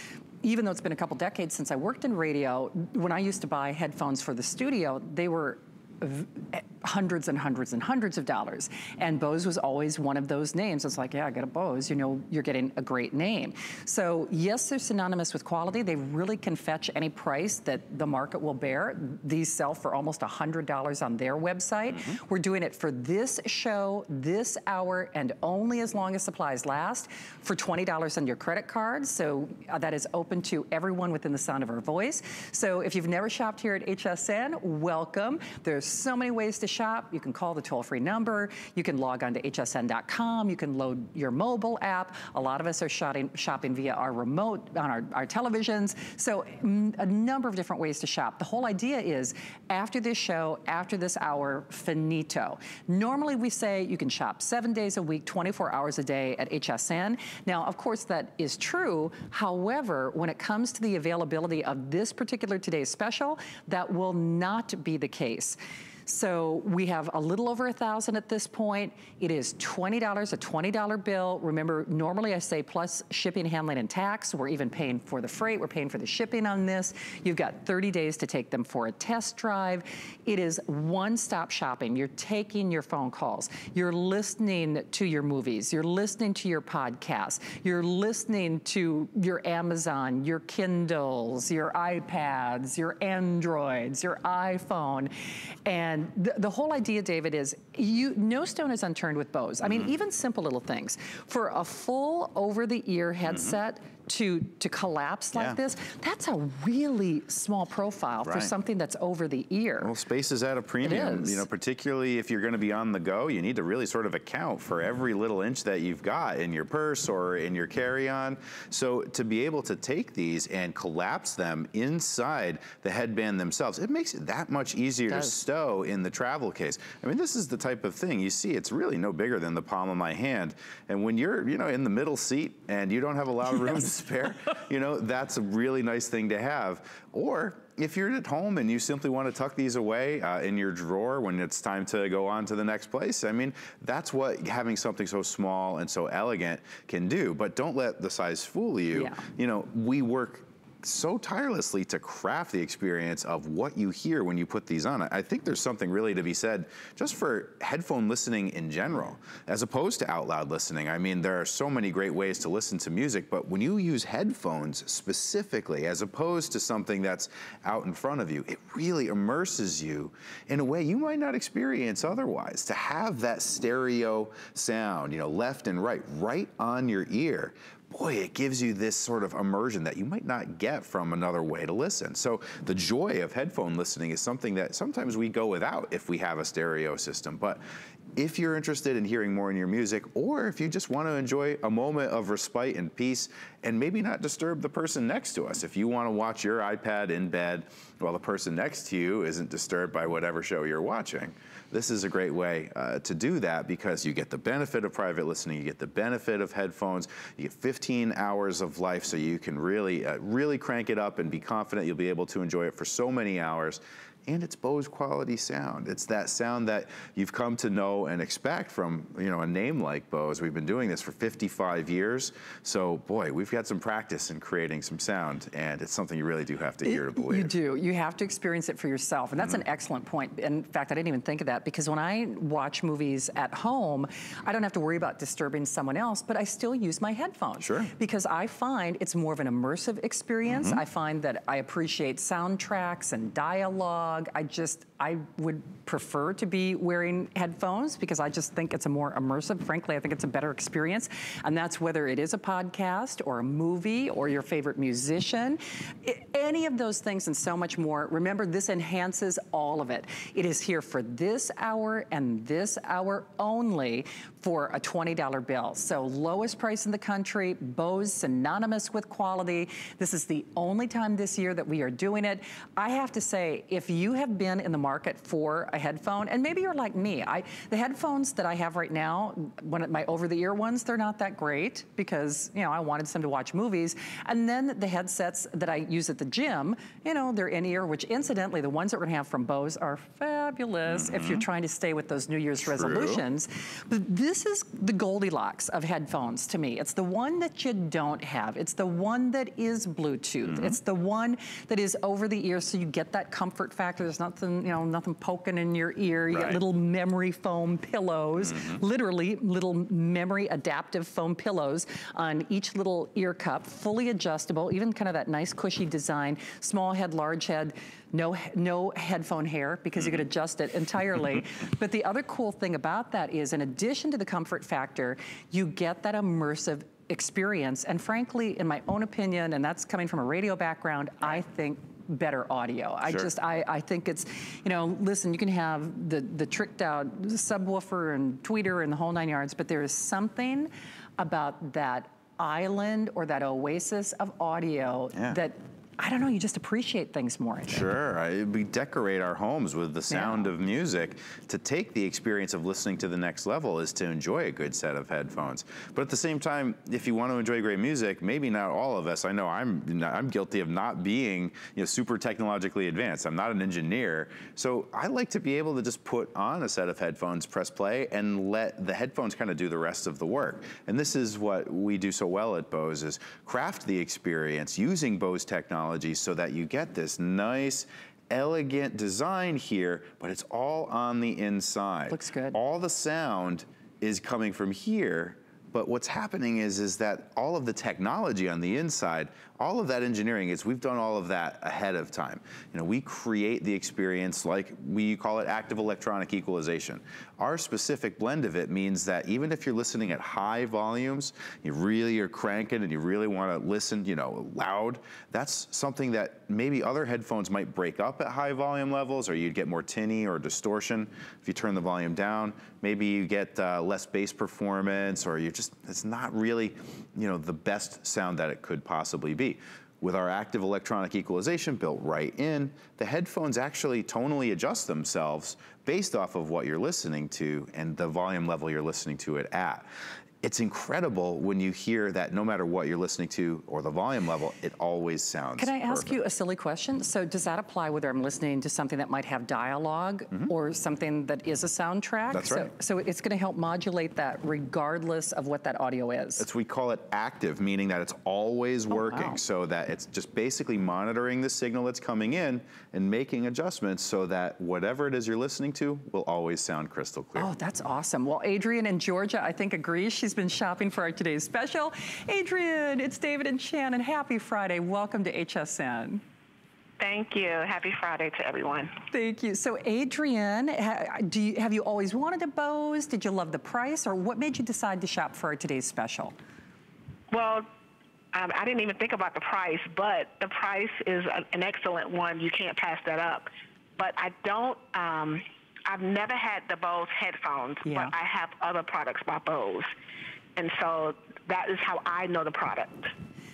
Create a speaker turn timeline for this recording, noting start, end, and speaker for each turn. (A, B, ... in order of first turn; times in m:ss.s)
0:00.4-1:35.1 A
0:21.9-0:22.2 B
1:35.6-1:49.9 A
1:39.6-1:39.9 B
1:43.3-1:43.6 B
1:45.3-1:45.6 B
1:48.2-1:48.5 B
1:49.8-3:07.6 B
1:50.8-1:51.4 A
2:05.1-2:05.4 A
2:28.9-2:29.2 A
3:08.1-3:47.5 B
3:46.8-5:47.9 A
3:57.6-3:57.9 B
4:00.5-4:00.8 B
4:50.9-4:51.4 B
4:52.6-4:53.2 B
5:00.4-5:00.8 B
5:06.3-5:06.6 B
5:08.4-5:08.8 B
5:20.0-5:20.2 B
5:33.0-5:33.3 B
5:45.1-5:45.4 B
5:47.7-7:09.9 B
5:50.1-5:50.5 A
6:22.1-6:22.6 A
7:10.4-7:16.2 B
7:15.6-7:26.5 A
7:22.3-7:22.7 B
7:26.4-7:37.5 B
7:28.9-7:29.4 A
7:37.3-7:46.2 A
7:47.0-7:48.9 C
7:49.1-7:56.3 A
7:57.3-7:57.7 C
7:58.3-8:09.9 C
8:07.8-8:08.1 A
8:10.6-8:13.1 C